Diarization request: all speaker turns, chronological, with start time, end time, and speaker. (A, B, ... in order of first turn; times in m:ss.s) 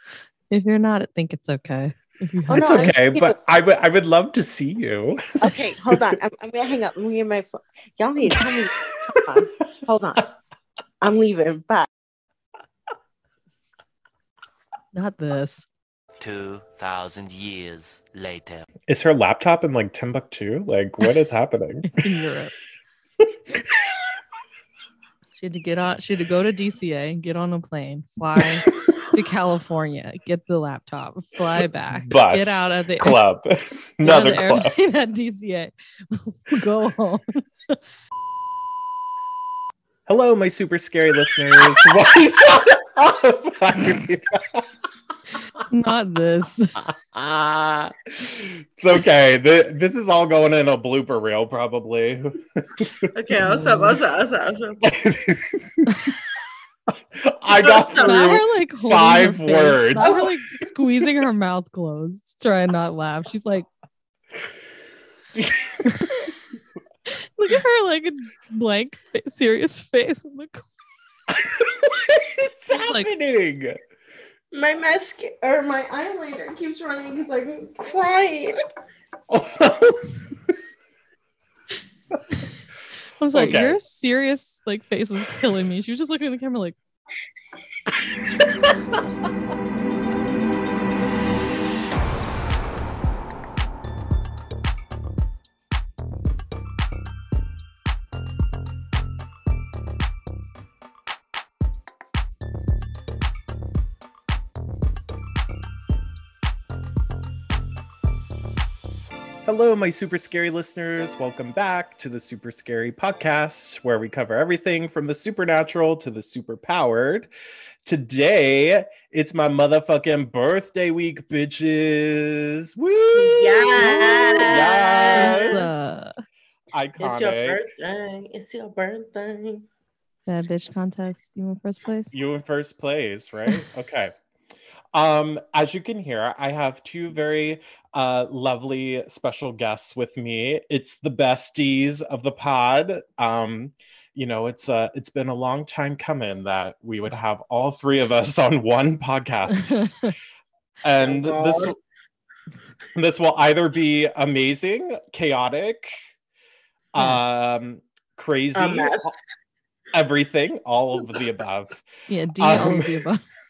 0:00.5-0:02.9 A
0:02.5-0:03.4 B
0:02.6-0:05.3 C
0:05.4-0:10.3 B
0:05.9-0:06.1 C
0:11.0-0:11.9 B
0:14.9-0:15.7 A
0:16.2-0:18.7 D
0:18.9-0:22.1 C
0:21.9-0:22.6 A
0:23.2-0:23.7 C
0:25.4-0:33.2 A
0:28.4-0:29.1 C
0:32.1-0:34.7 C
0:34.0-0:37.8 A
0:40.1-0:44.7 C
0:45.7-0:46.8 A
0:46.8-0:53.1 C
0:53.1-0:55.0 B
0:53.4-0:54.0 A
0:54.9-0:56.0 C
0:56.9-1:00.3 C
0:57.6-0:58.3 B
0:57.9-1:03.7 A
1:00.0-1:00.3 B
1:05.4-1:06.3 C
1:05.9-1:06.2 A
1:07.4-1:10.7 A
1:11.3-1:13.8 C
1:12.7-1:13.1 A
1:14.5-1:18.6 B
1:19.3-1:20.1 C
1:23.2-1:26.8 A
1:23.3-1:23.8 C
1:28.3-1:29.0 C
1:49.4-1:57.3 C
1:57.8-2:05.7 C
2:03.2-2:05.7 B
2:03.8-2:06.2 A
2:06.7-2:07.6 C
2:07.0-2:09.6 B
2:10.3-2:12.1 A
2:12.1-2:14.1 C
2:14.9-2:29.8 C
2:29.5-2:30.2 A
2:30.8-2:31.8 C
2:31.0-2:31.8 B
2:33.0-2:35.9 C
2:36.9-2:39.1 C
2:37.0-2:37.4 A
2:38.6-2:39.3 B
2:39.9-2:41.9 C
2:42.1-2:43.2 A
2:42.4-2:43.1 C